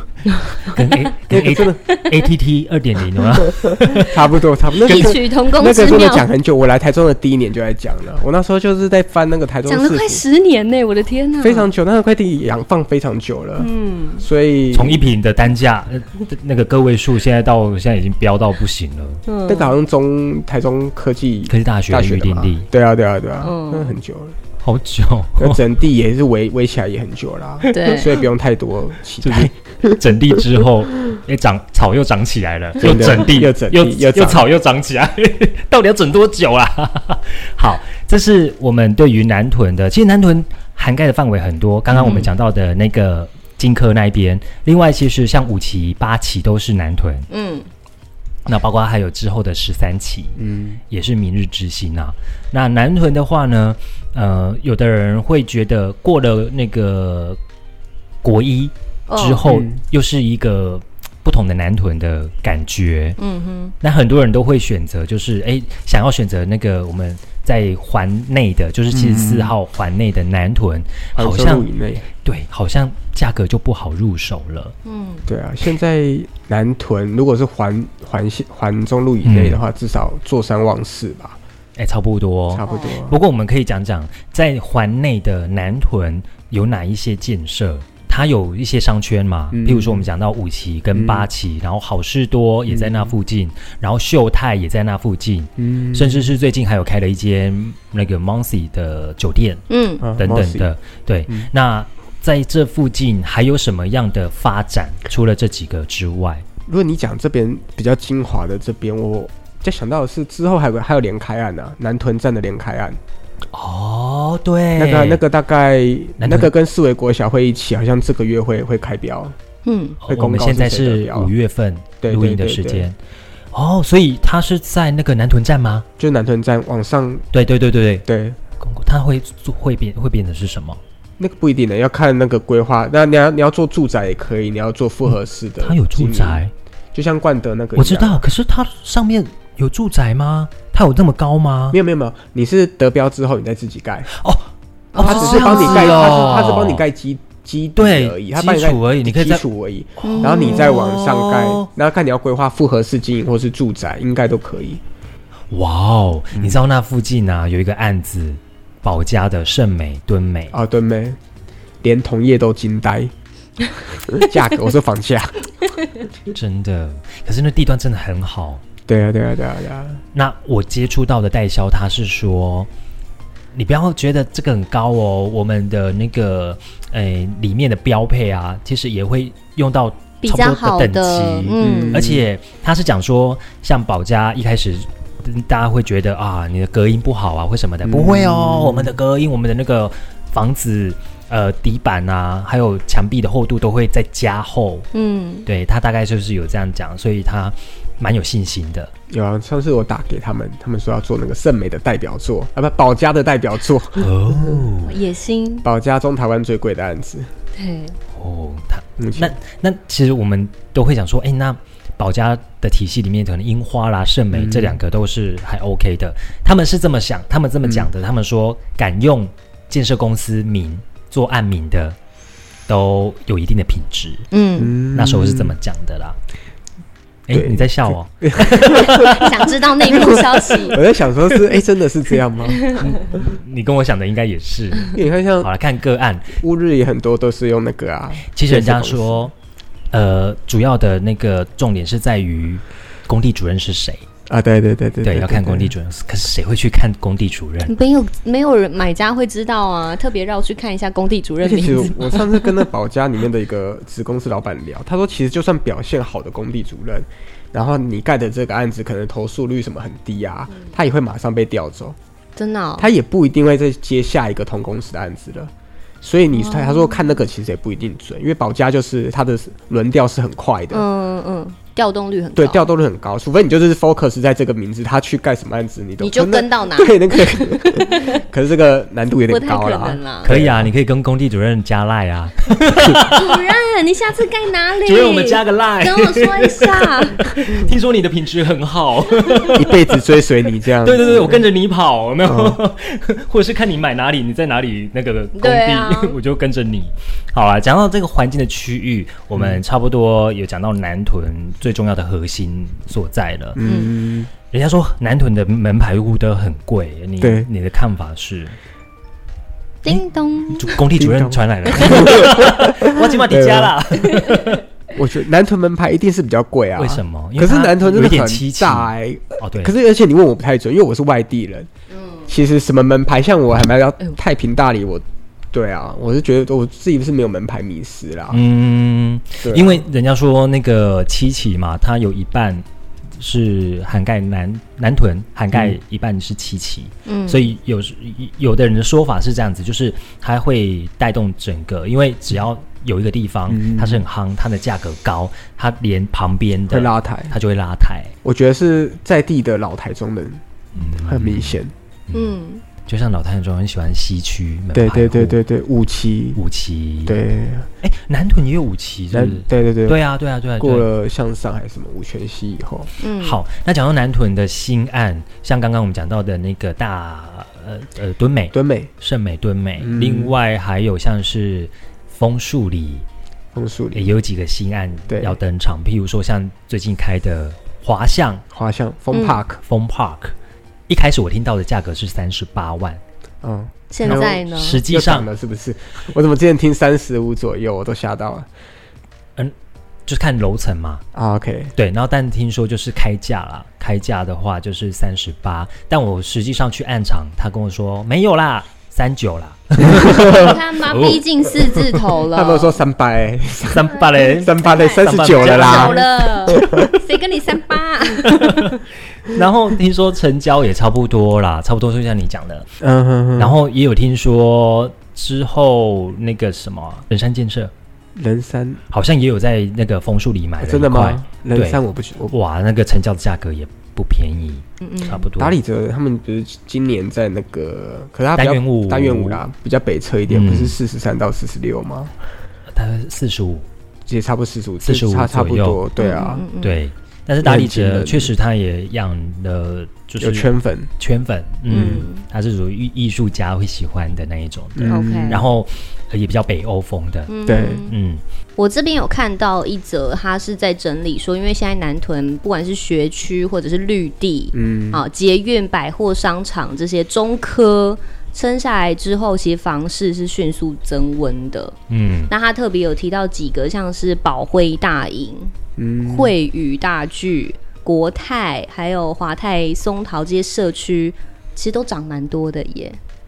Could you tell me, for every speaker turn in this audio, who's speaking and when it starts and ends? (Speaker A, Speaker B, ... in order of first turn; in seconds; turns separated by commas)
Speaker A: 0.3-1.2, Speaker B: 0.6-4.2, Speaker C: 1.2-1.8, Speaker A: 1.8-2.3, Speaker C: 3.6-10.2, Speaker A: 4.8-6.3, Speaker A: 9.7-11.7, Speaker C: 11.4-15.1, Speaker A: 13.6-14.3, Speaker B: 14.7-19.2, Speaker A: 19.3-19.8, Speaker C: 19.5-24.4, Speaker B: 21.5-22.7, Speaker A: 23.4-24.0, Speaker B: 24.6-25.6, Speaker C: 25.4-30.0, Speaker A: 27.7-28.2, Speaker B: 29.2-47.3, Speaker C: 32.8-34.5, Speaker A: 41.9-42.3, Speaker A: 47.3-47.7, Speaker B: 48.5-50.4, Speaker C: 50.4-50.8, Speaker B: 50.9-57.4, Speaker B: 58.2-63.2, Speaker A: 59.1-59.4, Speaker C: 59.4-59.8, Speaker A: 63.2-63.8, Speaker B: 63.8-71.7, Speaker C: 68.9-69.5, Speaker C: 71.2-72.1, Speaker B: 72.2-74.8, Speaker A: 74.8-75.3, Speaker C: 75.3-81.4, Speaker B: 79.2-79.6, Speaker B: 81.8-99.6, Speaker C: 82.5-83.2, Speaker A: 82.6-83.0, Speaker C: 89.5-90.1, Speaker C: 90.9-91.3, Speaker C: 92.7-93.1, Speaker C: 95.6-96.3, Speaker A: 99.7-100.1, Speaker C: 100.0-100.7, Speaker B: 100.1-106.4, Speaker C: 106.7-113.0, Speaker B: 113.5-115.2, Speaker C: 114.8-119.3, Speaker B: 116.2-116.5, Speaker A: 119.7-120.0, Speaker B: 120.0-123.0, Speaker C: 120.1-121.3, Speaker C: 122.0-122.9, Speaker B: 123.5-125.9, Speaker C: 126.0-127.2, Speaker B: 127.3-128.1, Speaker C: 128.1-128.4, Speaker B: 128.6-130.8, Speaker C: 131.2-136.4, Speaker B: 135.1-136.5, Speaker C: 136.9-138.3, Speaker B: 137.8-141.8, Speaker C: 141.7-144.1, Speaker B: 144.1-146.8, Speaker A: 144.9-146.3, Speaker C: 145.0-154.8, Speaker B: 147.8-149.4, Speaker A: 150.0-151.1, Speaker B: 150.4-151.7, Speaker B: 155.5-160.6, Speaker C: 156.3-156.6, Speaker C: 160.5-161.2, Speaker C: 161.8-163.1, Speaker C: 164.1-165.5, Speaker B: 166.3-168.6, Speaker C: 168.9-170.0, Speaker B: 170.1-172.7, Speaker B: 173.5-194.8, Speaker A: 180.2-182.1, Speaker C: 181.6-182.2, Speaker C: 187.8-189.0, Speaker A: 194.9-195.5, Speaker B: 195.4-198.9, Speaker C: 199.1-204.7, Speaker B: 204.0-204.9, Speaker A: 204.8-205.7, Speaker C: 205.6-207.3, Speaker A: 207.6-208.0, Speaker B: 208.1-222.0, Speaker C: 209.0-209.3, Speaker C: 214.3-214.8, Speaker C: 217.6-217.9, Speaker B: 222.7-224.2, Speaker A: 224.3-224.8, Speaker C: 224.6-225.6, Speaker B: 224.9-226.2, Speaker B: 227.3-230.6, Speaker C: 227.3-229.1, Speaker A: 228.7-230.8, Speaker C: 229.8-232.7, Speaker A: 232.4-233.3, Speaker B: 232.8-236.4, Speaker C: 234.9-235.5, Speaker C: 236.3-239.3, Speaker B: 238.2-239.3, Speaker B: 239.9-244.0, Speaker C: 244.3-245.8, Speaker B: 245.0-247.8, Speaker A: 247.6-252.5, Speaker C: 251.4-262.0, Speaker A: 262.4-262.9, Speaker C: 262.8-265.5, Speaker C: 266.0-270.9, Speaker A: 266.3-267.2, Speaker A: 270.7-272.7, Speaker C: 272.4-280.7, Speaker A: 276.0-278.2, Speaker A: 279.3-280.4, Speaker B: 280.2-283.4, Speaker A: 283.1-287.3, Speaker B: 284.9-289.9, Speaker C: 289.5-291.4, Speaker B: 290.8-303.6, Speaker C: 292.2-292.6, Speaker A: 295.3-296.2, Speaker C: 299.4-299.6, Speaker C: 303.6-304.3, Speaker A: 303.6-303.9, Speaker B: 304.5-308.6, Speaker C: 307.2-307.5, Speaker A: 309.8-310.9, Speaker B: 309.9-314.6, Speaker C: 310.9-313.8, Speaker A: 311.7-312.3, Speaker A: 314.0-314.4, Speaker C: 314.9-321.7, Speaker B: 316.8-319.8, Speaker A: 321.9-322.3, Speaker C: 322.3-328.4, Speaker B: 328.3-332.6, Speaker C: 329.4-329.9, Speaker B: 333.2-348.1, Speaker A: 337.1-337.5, Speaker C: 343.5-344.1, Speaker C: 346.7-347.4, Speaker C: 348.2-350.4, Speaker B: 350.8-355.4, Speaker C: 351.0-351.7, Speaker A: 352.1-352.7, Speaker C: 354.7-356.4, Speaker B: 356.4-357.2, Speaker C: 357.1-357.7, Speaker B: 357.8-360.9, Speaker C: 359.1-360.0, Speaker C: 360.6-362.9, Speaker A: 363.0-363.4, Speaker B: 363.2-373.1, Speaker C: 368.5-368.9, Speaker C: 369.8-370.4, Speaker C: 373.6-374.1, Speaker B: 373.9-378.4, Speaker C: 375.1-375.4, Speaker C: 378.5-379.6, Speaker A: 379.1-379.4, Speaker B: 379.5-380.3, Speaker B: 380.9-383.0, Speaker C: 383.4-388.5, Speaker A: 383.9-384.9, Speaker B: 384.0-385.3, Speaker B: 390.1-391.0, Speaker C: 391.1-391.7, Speaker B: 391.8-402.1, Speaker C: 399.9-400.5, Speaker A: 400.4-402.8, Speaker C: 402.2-407.0, Speaker B: 403.7-406.3, Speaker A: 403.9-408.8, Speaker B: 408.2-412.7, Speaker C: 412.8-413.6, Speaker B: 413.4-417.7, Speaker C: 418.1-418.8, Speaker B: 418.9-425.6, Speaker C: 420.6-422.3, Speaker A: 424.8-425.3, Speaker C: 425.4-432.1, Speaker B: 428.4-429.4, Speaker B: 430.3-430.8, Speaker B: 432.7-433.7, Speaker C: 434.1-436.4, Speaker B: 434.8-435.8, Speaker A: 436.0-436.8, Speaker B: 436.6-448.2, Speaker C: 437.4-438.3, Speaker C: 440.2-440.9, Speaker C: 441.7-442.0, Speaker A: 441.7-442.2, Speaker C: 444.8-445.5, Speaker A: 444.9-445.4, Speaker A: 447.3-447.9, Speaker C: 447.5-447.8, Speaker A: 448.6-461.7, Speaker C: 454.5-455.1, Speaker B: 461.9-462.3, Speaker A: 462.3-465.5, Speaker C: 465.8-466.4, Speaker A: 466.0-473.0